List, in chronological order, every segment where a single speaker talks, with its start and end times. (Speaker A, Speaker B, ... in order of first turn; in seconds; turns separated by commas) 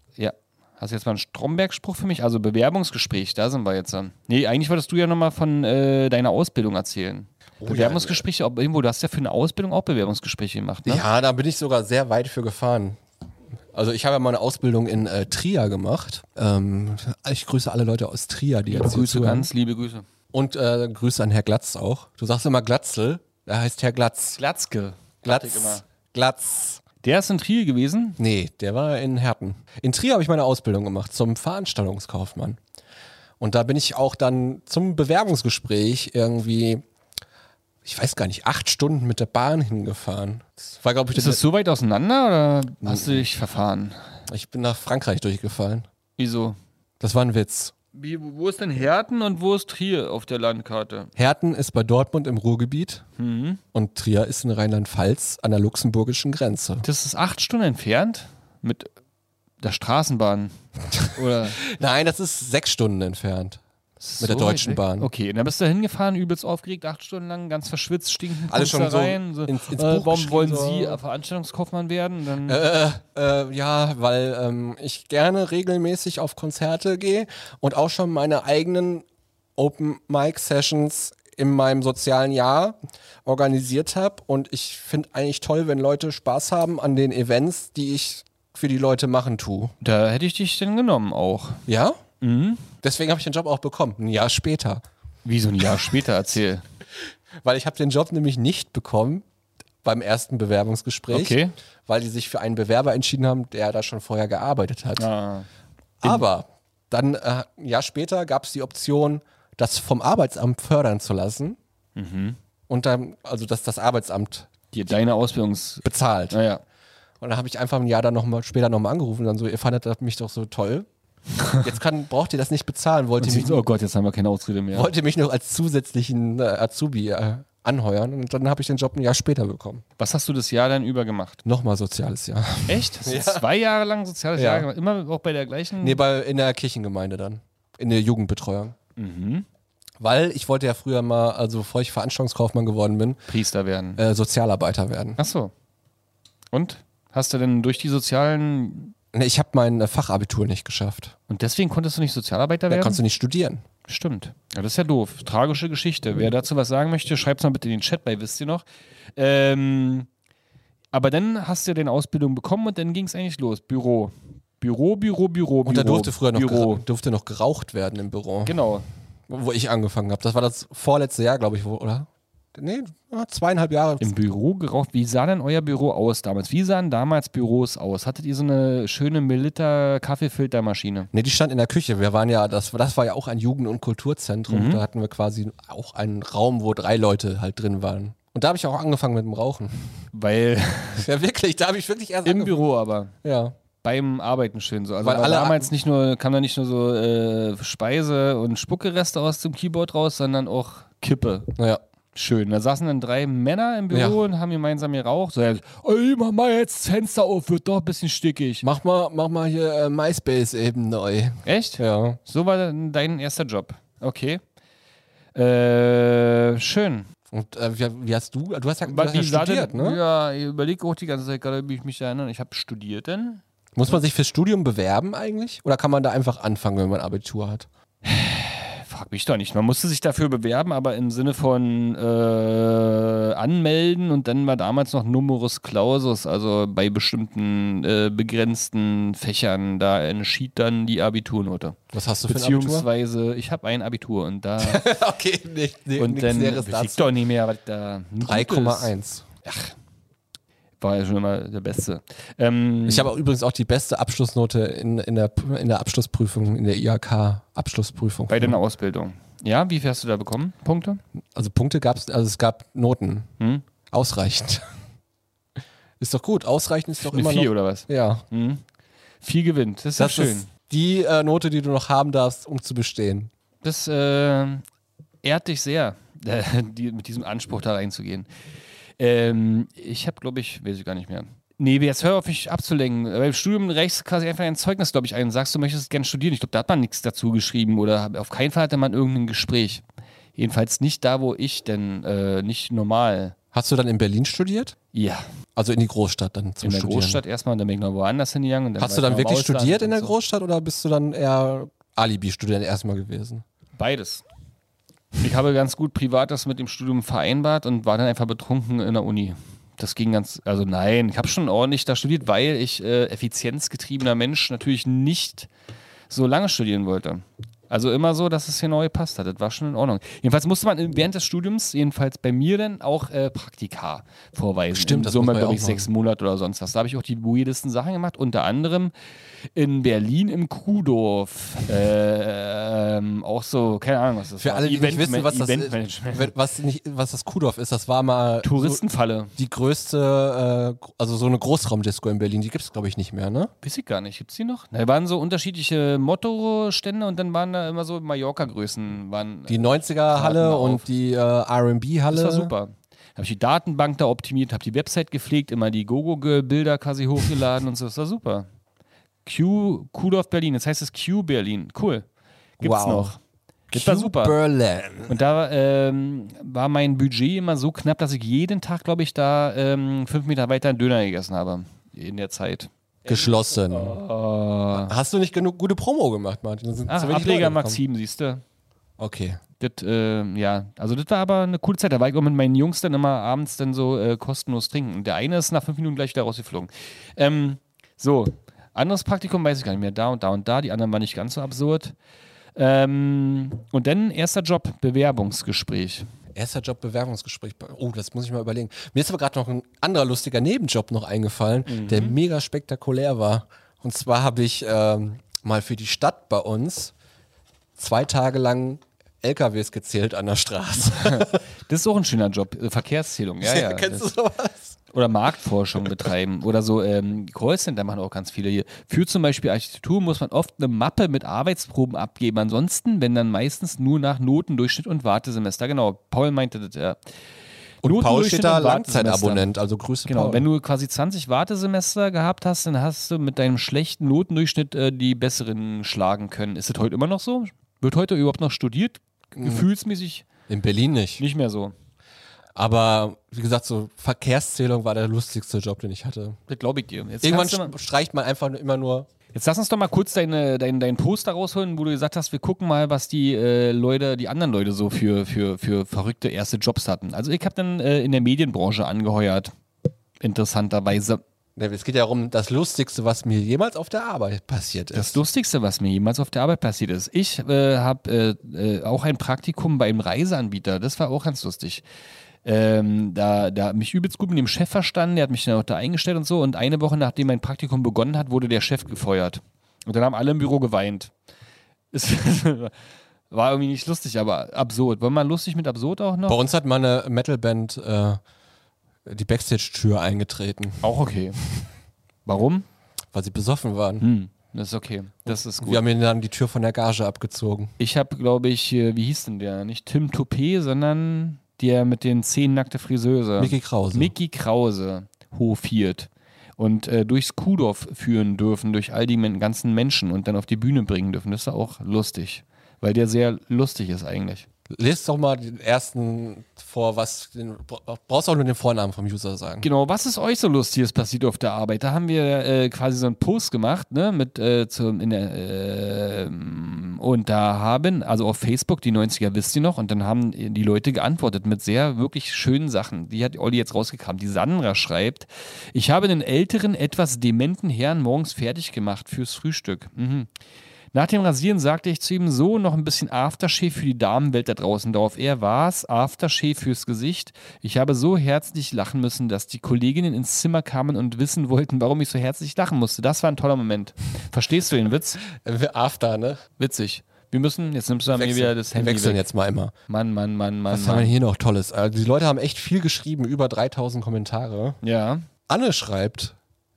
Speaker A: 0.2-11.0, Speaker B: 7.6-8.2, Speaker B: 10.8-13.0, Speaker B: 13.7-19.5, Speaker A: 18.7-20.0, Speaker B: 20.3-24.4, Speaker A: 24.4-25.8, Speaker B: 25.2-26.8, Speaker A: 27.0-28.2, Speaker B: 28.2-32.6, Speaker B: 33.4-36.8, Speaker B: 37.8-41.4, Speaker A: 41.1-44.0, Speaker B: 42.8-43.2, Speaker B: 44.3-45.9, Speaker A: 46.2-46.6, Speaker B: 47.0-47.7, Speaker A: 47.9-51.1, Speaker B: 51.1-53.0, Speaker A: 53.2-53.6, Speaker B: 53.7-56.8, Speaker A: 56.8-58.9, Speaker A: 59.6-60.5, Speaker A: 61.1-61.6, Speaker B: 61.4-63.6, Speaker A: 64.0-72.6, Speaker B: 64.2-65.1, Speaker B: 68.5-71.0, Speaker B: 72.5-79.0, Speaker B: 79.6-89.7, Speaker A: 89.8-91.6, Speaker B: 91.7-92.0, Speaker A: 92.2-92.7, Speaker B: 92.8-94.8, Speaker A: 95.2-96.6, Speaker B: 97.4-99.2, Speaker B: 99.8-105.1, Speaker A: 101.1-101.5, Speaker A: 105.0-105.5, Speaker B: 106.0-111.6, Speaker A: 112.0-112.4, Speaker B: 112.7-114.5, Speaker A: 114.7-116.6, Speaker B: 115.8-116.4, Speaker B: 117.2-120.9, Speaker B: 121.5-123.6, Speaker A: 123.2-124.9, Speaker B: 124.7-129.8, Speaker A: 130.0-131.4, Speaker B: 131.4-133.4, Speaker A: 132.7-136.0, Speaker B: 134.3-134.7, Speaker B: 135.8-138.8, Speaker A: 139.0-139.4, Speaker B: 140.0-143.2, Speaker A: 143.3-144.0, Speaker B: 144.0-145.2, Speaker A: 145.2-145.5, Speaker A: 146.5-148.9, Speaker B: 149.1-151.1, Speaker A: 151.3-153.0, Speaker B: 152.7-153.6, Speaker A: 153.8-160.1, Speaker A: 160.9-166.8, Speaker B: 165.6-168.5, Speaker A: 168.4-168.8, Speaker B: 169.3-174.1, Speaker A: 174.0-181.1, Speaker B: 181.1-190.0, Speaker A: 184.5-184.8, Speaker A: 190.1-191.1, Speaker B: 190.9-192.5, Speaker A: 192.2-193.1, Speaker B: 193.2-193.5, Speaker A: 193.8-201.5, Speaker B: 195.0-195.7, Speaker B: 201.6-201.8, Speaker A: 202.1-208.6, Speaker B: 203.9-204.2, Speaker B: 208.6-212.2, Speaker A: 211.4-214.4, Speaker A: 215.3-217.1, Speaker B: 217.3-220.0, Speaker A: 218.8-223.4, Speaker B: 223.8-227.7, Speaker A: 228.0-244.8, Speaker B: 241.9-242.9, Speaker B: 244.6-247.1, Speaker A: 245.9-248.9, Speaker B: 248.2-249.2, Speaker A: 249.4-249.7, Speaker A: 250.8-253.1, Speaker B: 252.8-258.6, Speaker A: 258.3-261.0, Speaker B: 261.4-263.3, Speaker A: 263.4-263.6, Speaker B: 263.9-264.6, Speaker B: 266.0-268.2, Speaker A: 267.0-268.6, Speaker A: 269.2-270.5, Speaker B: 270.0-273.3, Speaker A: 273.6-274.6, Speaker A: 275.2-278.3, Speaker A: 279.0-289.8, Speaker A: 290.4-293.3, Speaker B: 293.5-294.8, Speaker A: 294.9-295.2, Speaker B: 295.6-297.2, Speaker A: 296.6-300.1, Speaker B: 298.8-303.4, Speaker A: 303.8-304.2, Speaker A: 305.2-315.5, Speaker A: 316.1-328.9, Speaker B: 324.7-325.9, Speaker A: 329.5-336.3, Speaker B: 334.4-338.8, Speaker A: 338.4-339.3, Speaker B: 339.3-343.5, Speaker A: 343.6-350.8, Speaker B: 349.5-352.5, Speaker A: 352.1-358.5, Speaker A: 359.2-362.1, Speaker A: 362.6-363.2, Speaker B: 362.6-363.1, Speaker B: 363.7-365.1, Speaker A: 363.7-364.4, Speaker A: 365.1-374.9, Speaker B: 373.1-374.0, Speaker B: 374.7-377.8, Speaker A: 376.9-378.4, Speaker B: 379.0-379.4, Speaker A: 379.6-391.9, Speaker A: 392.5-396.1, Speaker B: 396.3-406.9, Speaker A: 401.6-402.2, Speaker B: 407.8-411.4, Speaker A: 410.9-414.1, Speaker B: 413.4-414.7, Speaker A: 414.9-427.0, Speaker A: 427.8-429.5, Speaker B: 427.8-430.4, Speaker A: 430.1-440.2, Speaker B: 439.4-439.6, Speaker B: 440.5-441.2, Speaker A: 441.2-441.7, Speaker B: 442.6-446.4, Speaker A: 446.5-447.7, Speaker B: 447.2-449.1, Speaker A: 449.3-459.5, Speaker A: 460.2-461.2, Speaker B: 461.6-465.2, Speaker A: 464.9-471.8, Speaker A: 472.4-481.1, Speaker A: 481.9-482.7, Speaker A: 483.3-486.4, Speaker B: 486.3-488.2, Speaker B: 489.1-490.8, Speaker A: 490.8-491.4, Speaker A: 492.2-492.6, Speaker B: 493.1-494.1, Speaker A: 494.0-495.8, Speaker B: 495.3-497.7, Speaker A: 497.8-514.5, Speaker B: 503.4-504.1, Speaker B: 514.7-519.7, Speaker A: 519.6-540.3, Speaker A: 540.9-555.2, Speaker B: 555.3-556.4, Speaker A: 556.6-559.2, Speaker B: 558.1-559.7, Speaker A: 559.9-561.1, Speaker B: 560.7-564.8, Speaker A: 564.8-565.2, Speaker B: 565.5-566.3